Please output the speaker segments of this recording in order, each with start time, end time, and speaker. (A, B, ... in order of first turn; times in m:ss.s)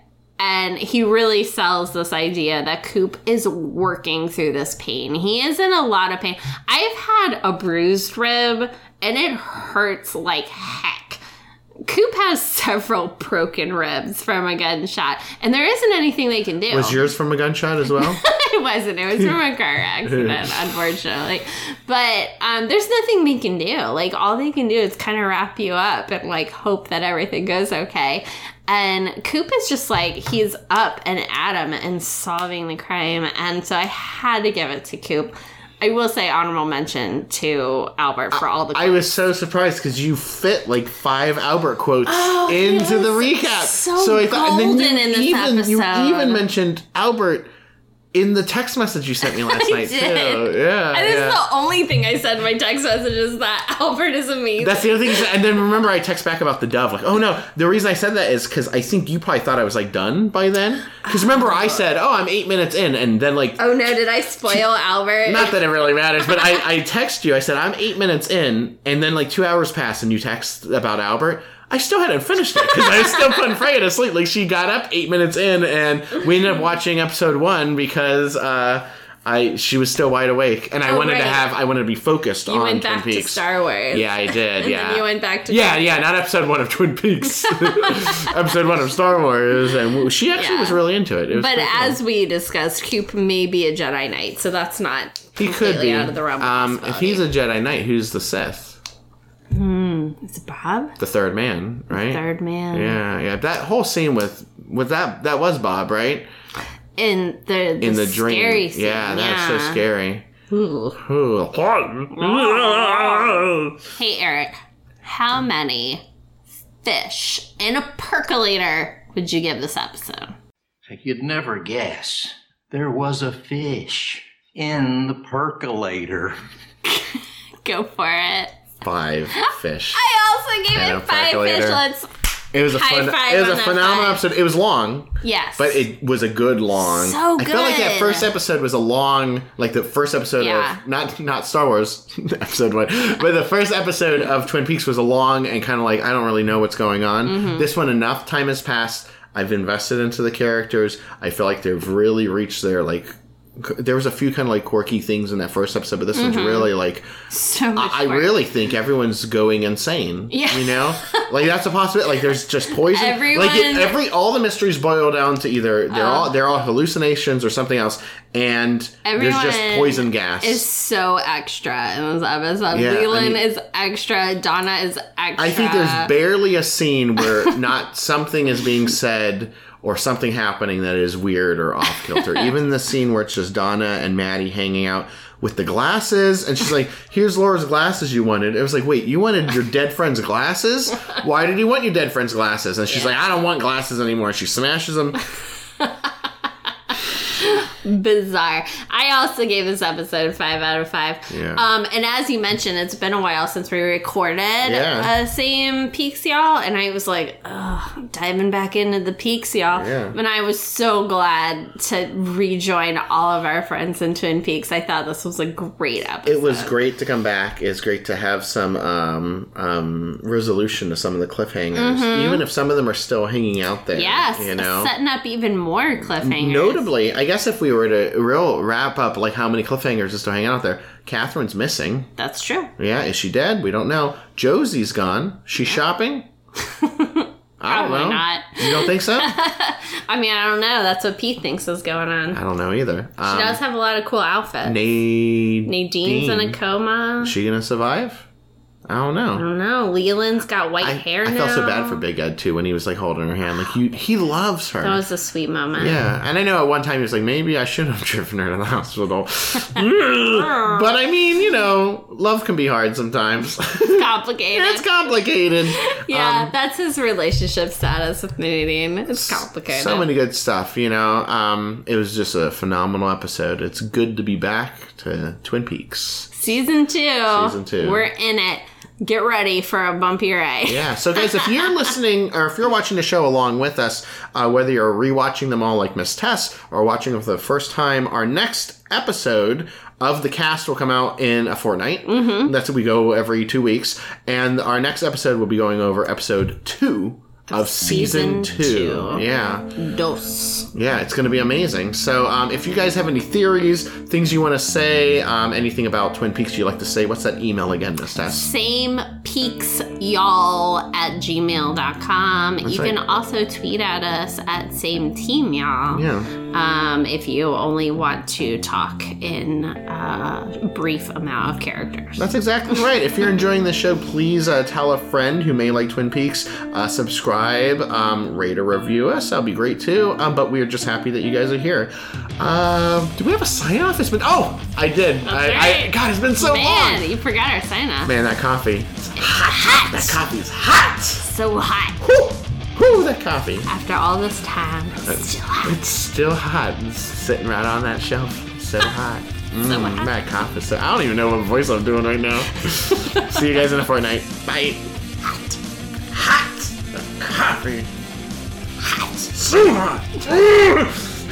0:00.4-0:11.2 A
0:11.8-0:17.0 A
0:16.7-0:18.2 B
0:18.0-0:39.0 A
0:20.1-0:20.5 B
0:38.3-0:47.5 B
0:42.0-0:46.4 A
0:48.1-0:51.4 B
0:49.2-0:55.3 A
0:54.6-1:03.6 B
1:01.1-1:01.6 A
1:03.6-1:05.6 A
1:05.2-1:32.0 B
1:20.8-1:21.4 A
1:22.5-1:26.0 A
1:27.4-1:28.3 A
1:30.3-1:30.8 A
1:31.3-1:37.2 A
1:35.4-1:38.8 B
1:39.5-1:41.0 A
1:41.0-1:46.3 B
1:41.9-1:43.0 A
1:47.0-1:49.8 A
1:47.8-1:50.3 B
1:50.5-1:51.0 A
1:51.0-1:53.8 B
1:52.1-1:56.0 A
1:56.8-2:00.3 A
2:00.9-2:06.4 C
2:06.8-2:08.6 A
2:08.8-2:10.0 B
2:09.4-2:12.1 A
2:10.7-2:11.8 B
2:12.5-2:37.1 B
2:12.7-2:14.2 A
2:15.2-2:15.9 A
2:16.7-2:18.3 A
2:20.4-2:20.8 A
2:27.2-2:27.7 A
2:36.1-2:36.7 A
2:37.3-2:38.4 A
2:37.7-2:50.6 B
2:40.3-2:41.3 A
2:42.7-2:44.0 A
2:45.9-2:46.3 A
2:49.0-2:56.1 A
2:52.7-2:53.4 B
2:55.4-3:15.2 B
3:17.1-3:36.7 A
3:21.3-3:21.6 B
3:24.6-3:25.1 B
3:29.7-3:30.2 B
3:36.2-3:44.9 B
3:41.7-3:42.4 A
3:43.9-3:46.9 A
3:46.1-3:52.1 B
3:52.2-3:52.7 A
3:52.8-3:56.3 B
3:56.6-4:02.4 A
3:57.6-3:59.3 B
4:02.3-4:03.6 B
4:03.2-4:04.8 A
4:04.6-4:06.6 B
4:05.6-4:07.3 A
4:07.2-4:08.2 B
4:08.9-4:09.4 B
4:09.3-4:12.0 A
4:10.8-4:15.0 B
4:14.8-4:16.0 A
4:15.8-4:26.5 B
4:23.8-4:24.9 A
4:25.7-4:30.1 A
4:29.1-4:36.3 B
4:36.3-4:41.5 A
4:37.3-4:38.1 B
4:40.6-4:59.7 B
4:52.0-4:52.5 A
4:57.5-4:59.2 A
4:59.7-5:00.7 A
5:00.7-5:08.5 B
5:08.3-5:22.2 A
5:12.6-5:13.0 B
5:15.9-5:16.3 B
5:22.2-5:37.0 B
5:35.2-5:38.1 A
5:38.0-5:41.3 B
5:39.2-5:40.2 A
5:41.2-5:42.0 A
5:42.0-5:43.7 B
5:43.6-5:45.8 A
5:45.0-5:54.8 B
5:49.6-5:50.1 A
5:52.9-5:53.2 A
5:56.1-5:57.9 B
5:59.0-6:01.2 B